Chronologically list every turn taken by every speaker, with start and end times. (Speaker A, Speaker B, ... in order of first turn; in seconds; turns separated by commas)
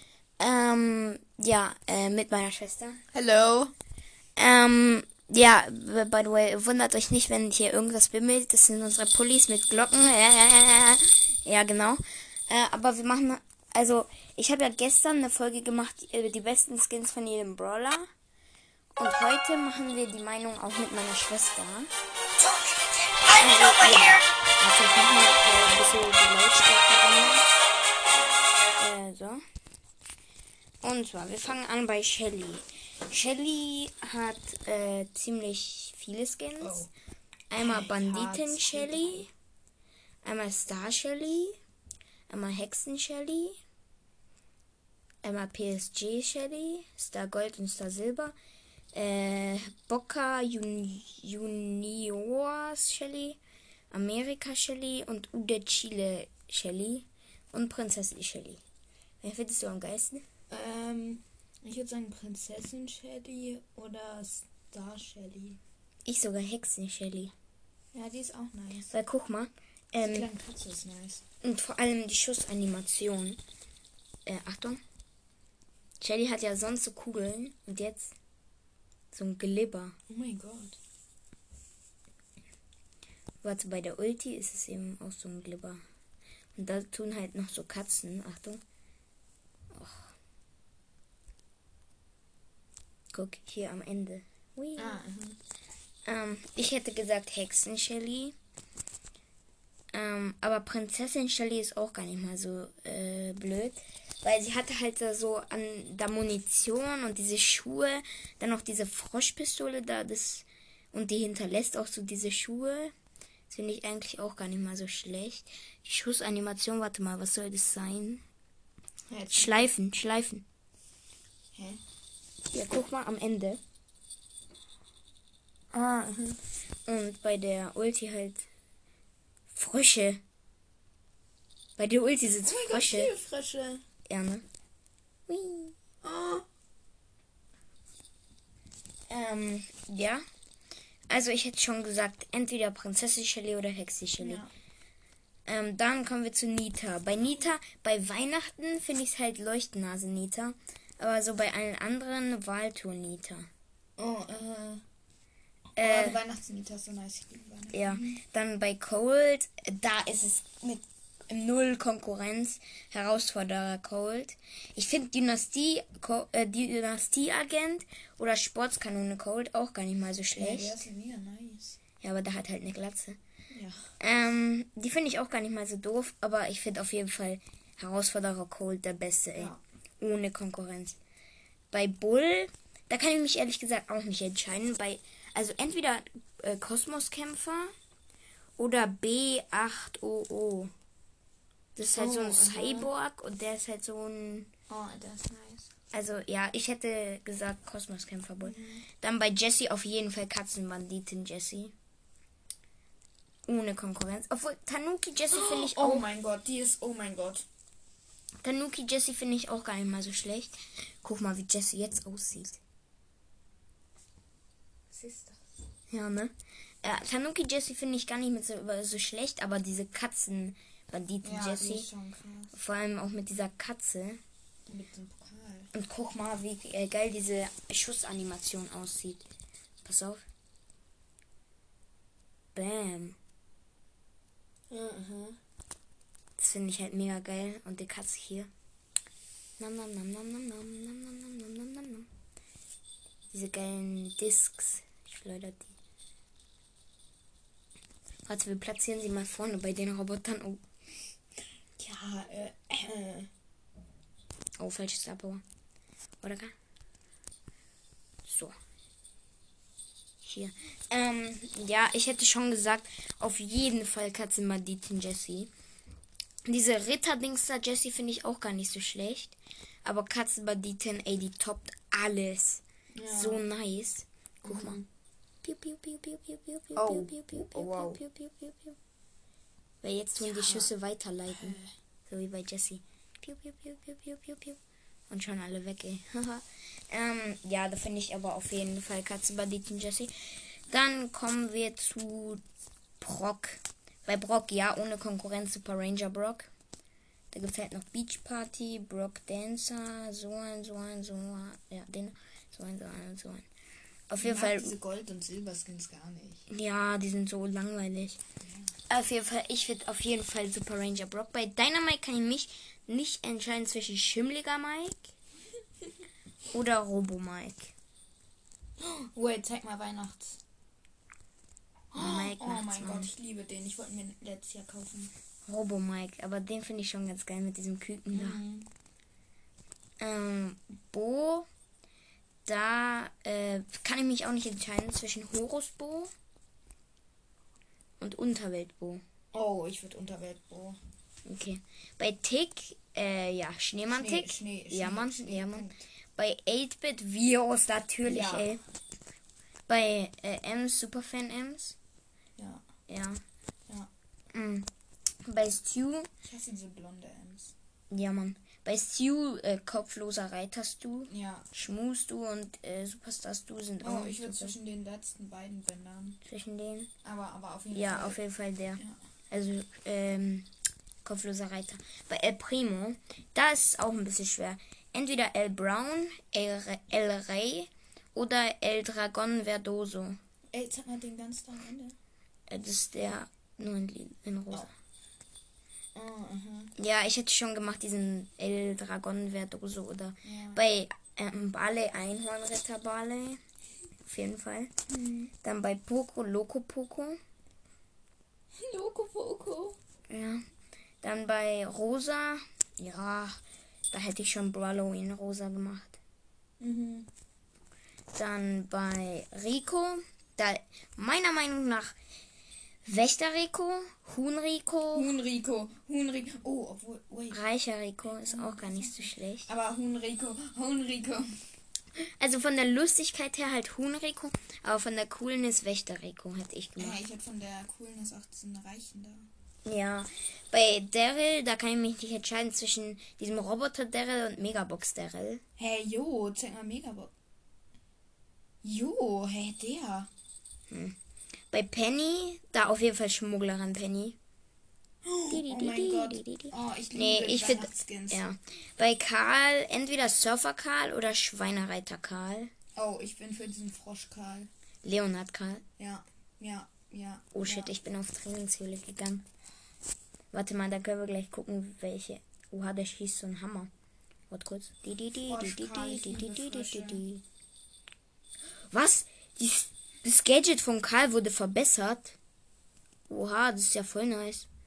Speaker A: 0.4-3.0, Speaker B: 3.1-3.7, Speaker A: 4.3-18.1, Speaker A: 19.0-21.9, Speaker B: 22.4-24.2, Speaker A: 23.4-27.4, Speaker A: 28.8-29.4, Speaker A: 30.8-36.9, Speaker B: 36.6-36.9, Speaker A: 37.5-39.3, Speaker B: 37.6-39.3, Speaker A: 40.2-41.6, Speaker A: 42.3-43.6, Speaker A: 45.2-48.3, Speaker A: 48.9-53.4, Speaker A: 53.9-58.6, Speaker A: 59.2-60.2, Speaker B: 60.5-65.6, Speaker A: 66.0-67.3, Speaker B: 67.9-68.9, Speaker A: 68.9-70.3, Speaker B: 70.0-71.2, Speaker A: 71.4-73.4, Speaker A: 74.2-74.8, Speaker A: 76.0-78.1, Speaker A: 79.1-80.0, Speaker B: 80.1-80.8, Speaker A: 83.4-85.8, Speaker A: 86.5-88.6, Speaker A: 89.7-90.1, Speaker A: 93.1-95.0, Speaker B: 94.8-95.4, Speaker A: 96.0-98.3, Speaker A: 99.9-112.9, Speaker A: 113.5-118.2, Speaker B: 119.1-119.7, Speaker A: 119.3-120.4, Speaker B: 121.5-121.8, Speaker A: 122.5-123.6, Speaker B: 125.7-126.4, Speaker A: 126.8-128.5, Speaker A: 129.5-130.2, Speaker A: 131.8-133.1, Speaker B: 132.4-133.8, Speaker A: 134.1-134.4, Speaker A: 135.3-135.8, Speaker B: 136.0-136.4, Speaker A: 139.1-140.2, Speaker A: 141.1-144.4, Speaker B: 144.2-144.5, Speaker A: 145.4-153.5, Speaker B: 154.0-154.8, Speaker A: 155.8-156.2, Speaker B: 155.8-158.2, Speaker A: 157.7-170.7, Speaker B: 170.3-171.8, Speaker A: 172.0-173.2, Speaker B: 173.5-173.9, Speaker A: 174.0-181.0, Speaker A: 181.7-187.7, Speaker A: 188.6-190.7, Speaker A: 191.8-194.5, Speaker B: 191.9-192.9, Speaker B: 194.7-195.7, Speaker A: 195.9-201.7, Speaker B: 198.4-198.8, Speaker A: 203.4-206.1, Speaker B: 205.3-207.5, Speaker A: 208.4-212.6, Speaker B: 214.9-215.6, Speaker A: 215.9-221.9, Speaker B: 221.2-222.6, Speaker A: 222.5-224.2, Speaker B: 224.7-225.7, Speaker A: 225.7-229.2, Speaker A: 229.8-230.2, Speaker A: 232.5-233.2, Speaker B: 234.7-235.4, Speaker A: 236.4-238.5, Speaker A: 239.6-242.1, Speaker A: 243.3-245.7, Speaker A: 248.3-250.6, Speaker B: 251.8-253.3, Speaker A: 254.6-255.4, Speaker A: 256.2-256.5, Speaker A: 258.2-258.5, Speaker A: 260.2-265.5, Speaker A: 266.4-274.8, Speaker B: 272.9-273.4, Speaker B: 274.4-274.9, Speaker A: 275.4-278.8, Speaker B: 276.8-278.0, Speaker A: 279.8-284.6, Speaker B: 280.2-280.7, Speaker B: 281.3-281.7, Speaker A: 285.1-292.4, Speaker A: 293.0-296.5, Speaker A: 297.3-303.5, Speaker A: 304.1-304.8, Speaker B: 304.2-306.5, Speaker A: 306.5-308.2, Speaker A: 308.9-315.1, Speaker A: 316.5-317.7, Speaker B: 318.8-320.4, Speaker B: 321.9-325.1, Speaker A: 321.9-323.1, Speaker A: 325.5-328.4, Speaker B: 328.1-328.7, Speaker A: 330.0-331.5, Speaker A: 332.4-336.1, Speaker A: 338.0-339.0, Speaker B: 339.3-340.8, Speaker A: 341.2-348.6, Speaker B: 343.9-345.8, Speaker B: 348.0-348.5, Speaker A: 349.7-351.8, Speaker B: 352.4-352.6, Speaker A: 352.9-353.2, Speaker A: 354.3-354.7, Speaker A: 355.2-356.1, Speaker B: 356.2-357.5, Speaker A: 357.9-364.5, Speaker B: 361.1-361.5, Speaker B: 363.8-366.2, Speaker A: 366.2-366.9, Speaker B: 367.0-368.2, Speaker A: 367.7-370.5, Speaker A: 371.0-380.2, Speaker B: 380.5-382.0, Speaker A: 382.5-384.7, Speaker B: 385.9-386.7, Speaker A: 386.8-393.4, Speaker B: 390.2-390.6, Speaker A: 394.0-394.7, Speaker B: 394.9-395.3, Speaker A: 395.4-397.2, Speaker B: 398.6-399.8, Speaker A: 400.1-400.4, Speaker A: 401.0-403.4, Speaker A: 403.9-406.0, Speaker B: 406.6-407.1, Speaker A: 408.1-411.9, Speaker A: 412.8-415.1, Speaker B: 414.9-417.4, Speaker A: 417.3-419.5, Speaker B: 418.0-421.4, Speaker A: 422.1-427.0, Speaker B: 426.8-429.3, Speaker A: 429.6-435.4, Speaker B: 435.6-437.1, Speaker B: 438.6-440.1, Speaker A: 440.7-440.9, Speaker A: 441.5-444.2, Speaker B: 445.0-448.2, Speaker A: 445.3-452.5, Speaker B: 452.8-454.5, Speaker A: 454.8-455.6, Speaker B: 455.8-457.7, Speaker A: 457.3-459.2, Speaker A: 460.3-463.7, Speaker A: 464.3-467.2, Speaker B: 465.3-467.0, Speaker A: 468.7-472.1, Speaker A: 473.1-474.5